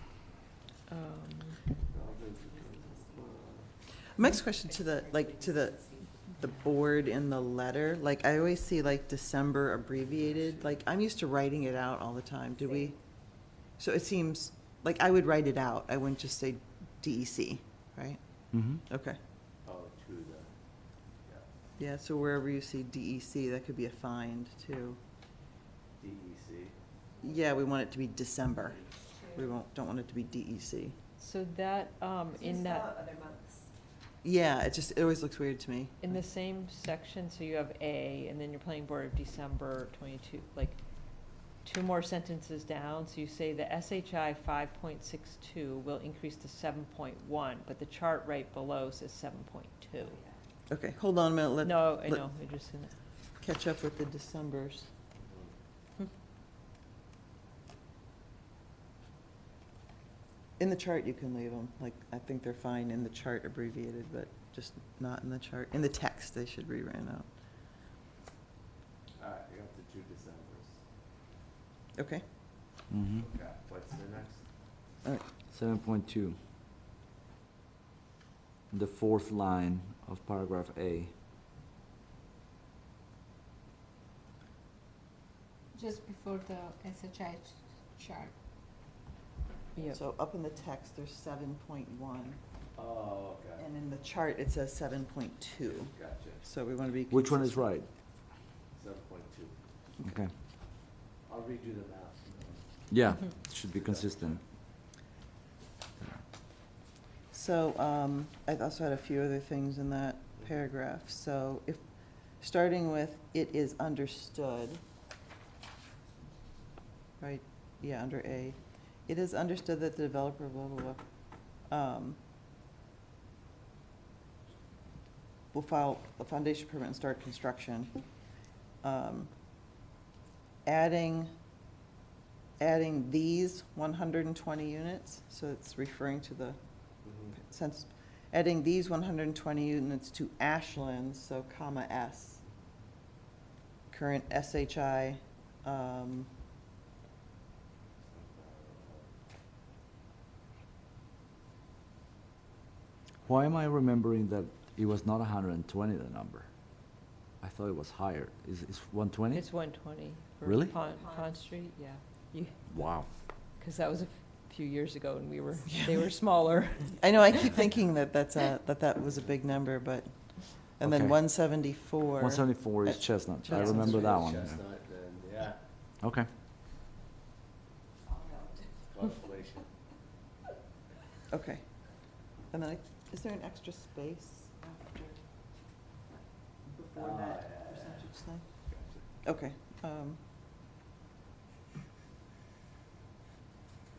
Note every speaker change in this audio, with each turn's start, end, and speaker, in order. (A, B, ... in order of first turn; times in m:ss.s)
0:00.9-0:01.6 A
0:01.9-0:03.7 B
0:04.1-0:13.0 C
0:04.7-0:06.1 D
0:10.2-0:10.6 B
0:13.5-0:18.2 C
0:18.5-0:18.8 E
0:18.8-0:19.2 C
0:19.6-0:20.5 B
0:21.8-0:25.0 C
0:26.0-0:26.8 B
0:27.2-0:31.0 C
0:29.1-0:29.4 D
0:31.2-0:33.0 A
0:32.4-0:33.7 D
0:34.2-0:36.2 C
0:36.0-0:40.8 A
0:41.6-0:50.2 A
0:50.7-0:52.2 C
0:51.6-0:52.9 A
0:53.4-0:54.9 C
0:55.2-0:55.5 B
1:00.6-1:07.2 C
1:09.2-1:10.8 B
1:11.9-1:12.2 C
1:12.9-1:13.2 E
1:13.2-1:14.4 B
1:15.5-1:16.4 E
1:18.7-1:21.1 E
1:25.7-1:28.3 D
1:29.8-1:32.4 C
1:32.7-1:33.6 B
1:33.6-1:37.7 C
1:35.6-1:36.4 B
1:37.1-1:37.9 E
1:38.8-1:39.5 B
1:40.0-1:40.3 E
1:41.3-1:42.6 B
1:42.9-1:44.4 E
1:43.7-1:44.4 B
1:47.3-1:51.8 C
1:52.4-1:54.8 C
1:57.2-2:01.0 C
2:01.6-2:02.2 C
2:05.5-2:08.0 C
2:08.8-2:09.3 C
2:10.6-2:11.3 C
2:12.6-2:16.6 C
2:17.3-2:22.4 C
2:23.9-2:26.3 C
2:28.0-2:29.1 B
2:33.2-2:36.5 E
2:37.4-2:39.5 E
2:39.3-2:42.9 A
2:40.4-2:40.7 E
2:40.9-2:41.2 D
2:42.7-2:43.1 E
2:43.6-2:47.6 A
2:45.7-2:46.0 C
2:46.8-2:54.1 C
2:50.8-2:51.2 E
2:52.2-2:54.6 E
2:53.5-2:55.6 B
2:56.0-2:56.3 E
2:58.1-2:58.7 D
2:58.9-2:59.7 B
3:01.3-3:01.6 C
3:02.5-3:05.2 C
3:06.7-3:08.4 C
3:06.9-3:08.1 B
3:08.6-3:09.0 B
3:09.2-3:10.2 C